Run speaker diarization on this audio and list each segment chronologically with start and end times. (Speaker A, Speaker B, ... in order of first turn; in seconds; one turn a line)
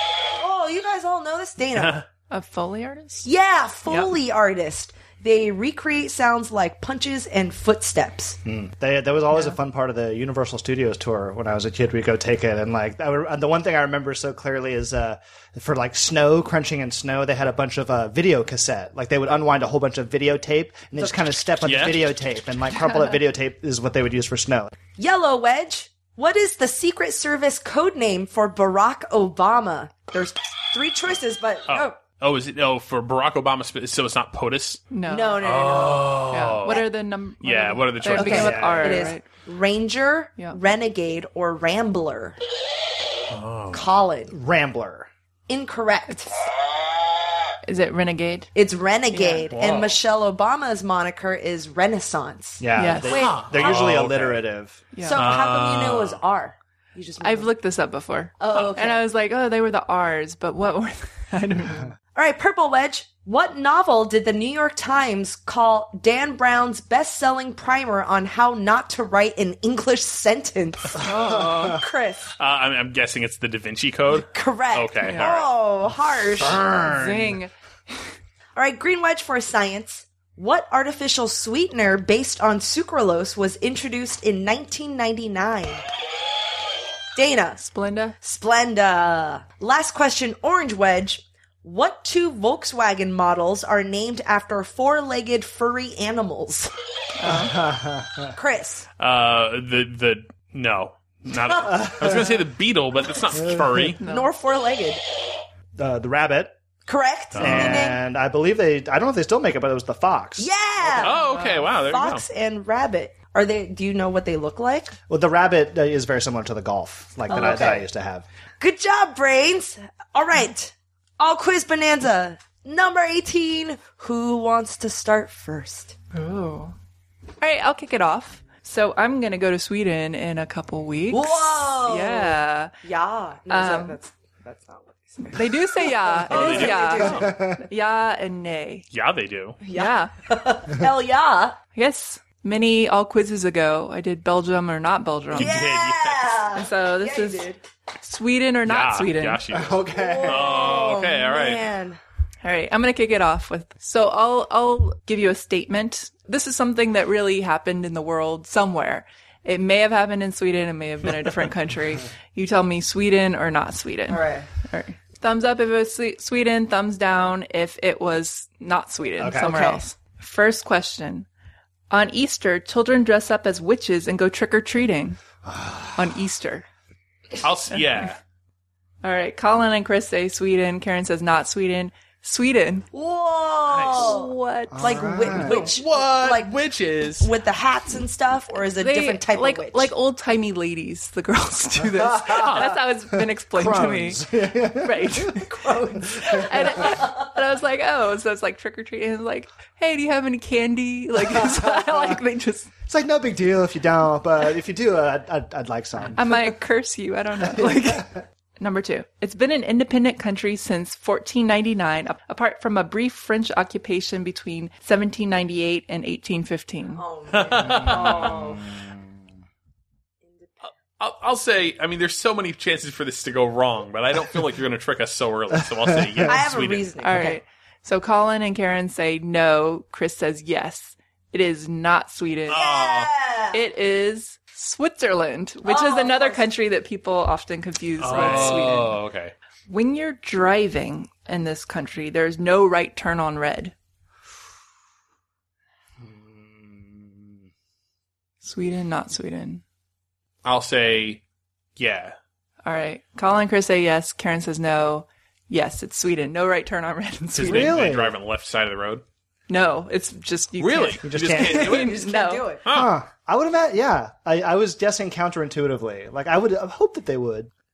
Speaker A: 0.4-2.0
Speaker B: 1.8-2.0
Speaker C: 2.3-3.3
Speaker A: 3.2-8.4
Speaker C: 3.9-4.1
Speaker D: 8.4-24.7
Speaker B: 21.6-22.1
Speaker A: 25.0-32.0
Speaker B: 31.7-34.9
Speaker C: 34.9-35.5
Speaker A: 35.1-36.9
Speaker B: 35.4-36.9
Speaker C: 36.3-39.3
Speaker B: 37.4-38.7
Speaker A: 38.1-42.4
Speaker D: 38.2-39.1
Speaker B: 43.3-43.9
Speaker A: 43.7-44.3
Speaker D: 44.3-45.1
Speaker A: 45.5-46.3
Speaker C: 47.7-48.5
Speaker A: 48.5-54.0
Speaker C: 49.1-49.5
Speaker B: 49.5-50.0
Speaker D: 52.6-54.8
Speaker C: 52.8-53.1
Speaker B: 53.1-54.4
Speaker C: 54.9-55.2
Speaker A: 55.0-57.5
Speaker B: 55.1-56.2
Speaker C: 57.2-61.9
Speaker A: 58.4-59.0
Speaker A: 62.1-72.3
Speaker D: 71.1-71.8
Speaker C: 71.2-71.8
Speaker B: 72.4-75.5
Speaker A: 74.2-76.6
Speaker C: 75.0-75.4
Speaker D: 76.4-77.4
Speaker C: 76.9-77.5
Speaker A: 78.5-85.8
Speaker A: 87.2-87.7
Speaker C: 87.6-88.2
Speaker A: 88.2-96.7
Speaker C: 97.2-97.6
Speaker D: 97.2-98.3
Speaker A: 98.3-98.9
Speaker B: 99.0-104.0
Speaker A: 101.5-101.8
Speaker D: 101.7-102.3
Speaker D: 103.5-103.9
Speaker C: 104.0-104.3
Speaker A: 104.0-105.0
Speaker D: 105.8-106.5
Speaker A: 106.9-108.0
Speaker B: 107.3-107.9
Speaker D: 107.4-111.1
Speaker A: 110.4-115.0
Speaker B: 111.0-112.2
Speaker C: 111.0-111.7
Speaker D: 115.1-118.2
Speaker C: 117.3-117.6
Speaker A: 117.3-117.8
Speaker A: 118.6-126.0
Speaker C: 126.1-126.7
Speaker C: 127.4-132.7
Speaker A: 131.1-137.5
Speaker C: 133.5-134.0
Speaker C: 135.2-138.9
Speaker B: 136.3-137.3
Speaker D: 137.1-137.6
Speaker B: 138.9-139.6
Speaker A: 139.6-141.6
Speaker C: 139.7-140.1
Speaker C: 141.8-145.5
Speaker B: 145.3-146.5
Speaker A: 145.3-147.6
Speaker C: 146.6-147.5
Speaker C: 148.0-149.4
Speaker B: 148.7-151.7
Speaker D: 149.5-150.8
Speaker A: 149.9-152.0
Speaker C: 152.4-171.3
Speaker A: 164.1-164.5
Speaker D: 169.2-169.6
Speaker A: 169.5-169.8
Speaker C: 171.9-175.2
Speaker D: 175.4-176.1
Speaker C: 176.0-176.7
Speaker B: 177.4-178.2
Speaker C: 179.0-182.9
Speaker A: 182.9-186.6
Speaker B: 183.7-184.1
Speaker C: 183.9-185.4
Speaker D: 184.7-185.6
Speaker B: 185.5-187.3
Speaker A: 187.2-189.9
Speaker C: 188.8-194.3
Speaker D: 191.8-192.7
Speaker D: 193.5-195.3
Speaker C: 194.8-195.5
Speaker A: 195.4-197.3
Speaker C: 196.2-202.7
Speaker D: 201.3-202.2
Speaker D: 202.9-206.4
Speaker C: 206.2-217.0
Speaker D: 207.5-208.1
Speaker A: 217.0-218.7
Speaker B: 217.3-218.4
Speaker D: 217.7-219.0
Speaker B: 221.0-226.9
Speaker D: 225.6-226.5
Speaker A: 226.3-227.4
Speaker C: 227.0-232.6
Speaker B: 232.5-233.1
Speaker A: 232.5-233.6
Speaker C: 233.5-239.0
Speaker A: 235.7-236.4
Speaker B: 238.0-239.3
Speaker D: 238.1-238.6
Speaker C: 239.7-243.7
Speaker D: 246.0-247.3
Speaker C: 248.4-249.6
Speaker B: 250.4-251.2
Speaker B: 251.8-252.2
Speaker C: 252.7-257.8
Speaker B: 257.4-259.0
Speaker D: 257.4-258.2
Speaker C: 259.5-262.5
Speaker B: 260.6-262.0
Speaker D: 261.0-261.9
Speaker A: 261.4-262.6
Speaker B: 262.6-262.9
Speaker D: 262.7-267.5